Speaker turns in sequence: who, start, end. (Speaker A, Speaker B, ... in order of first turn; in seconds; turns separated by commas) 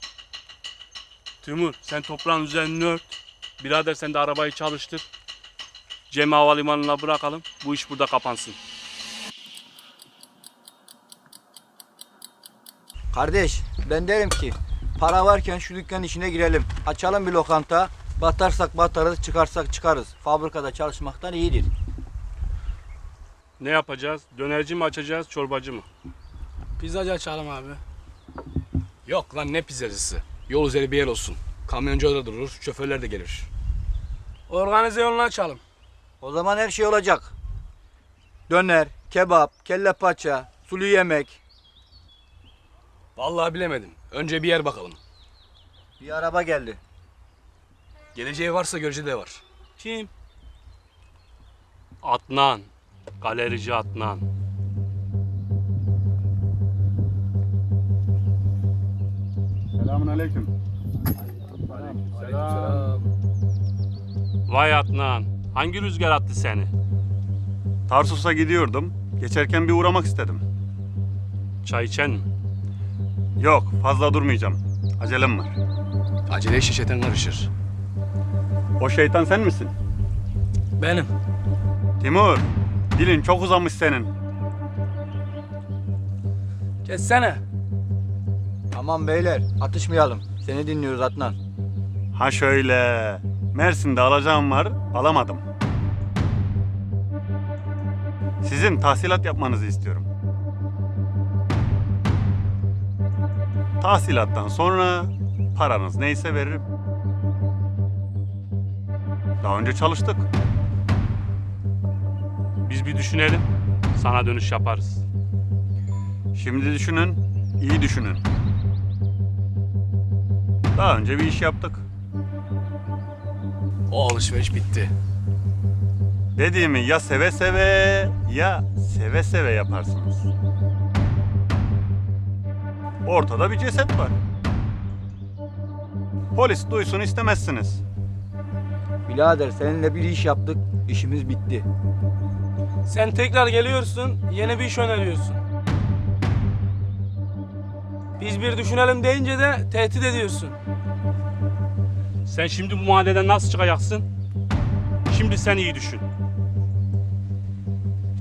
Speaker A: 1.4-5.1, Speaker A: 6.1-8.6, Speaker B: 13.1-21.7, Speaker A: 23.6-25.9, Speaker C: 26.8-27.8, Speaker D: 29.1-33.5, Speaker C: 34.5-35.6, Speaker B: 36.2-37.3, Speaker B: 38.5-41.4, Speaker D: 43.2-45.0, Speaker B: 46.0-46.8, Speaker D: 48.1-49.4, Speaker C: 49.8-50.1, Speaker A: 52.0-52.7, Speaker A: 53.2-54.3, Speaker E: 59.8-60.5, Speaker E: 62.1-62.8, Speaker A: 64.5-66.7, Speaker E: 67.9-70.4, Speaker A: 71.6-72.3, Speaker E: 73.4-75.6, Speaker D: 76.3-77.5, Speaker E: 78.8-79.7, Speaker C: 80.8-81.1, Speaker E: 82.0-84.1, Speaker C: 86.9-87.4, Speaker B: 88.7-91.4, Speaker E: 92.1-95.4, Speaker E: 98.4-100.1, Speaker E: 103.8-106.7, Speaker E: 109.4-110.3, Speaker A: 112.7-115.0, Speaker E: 116.3-118.2, Speaker E: 120.8-121.8, Speaker D: 123.9-124.9, Speaker E: 126.3-130.3, Speaker E: 133.1-134.2, Speaker E: 136.3-137.8, Speaker B: 139.1-141.7, Speaker C: 142.9-145.4, Speaker C: 148.2-150.6, Speaker A: 152.3-154.1, Speaker A: 155.1-156.1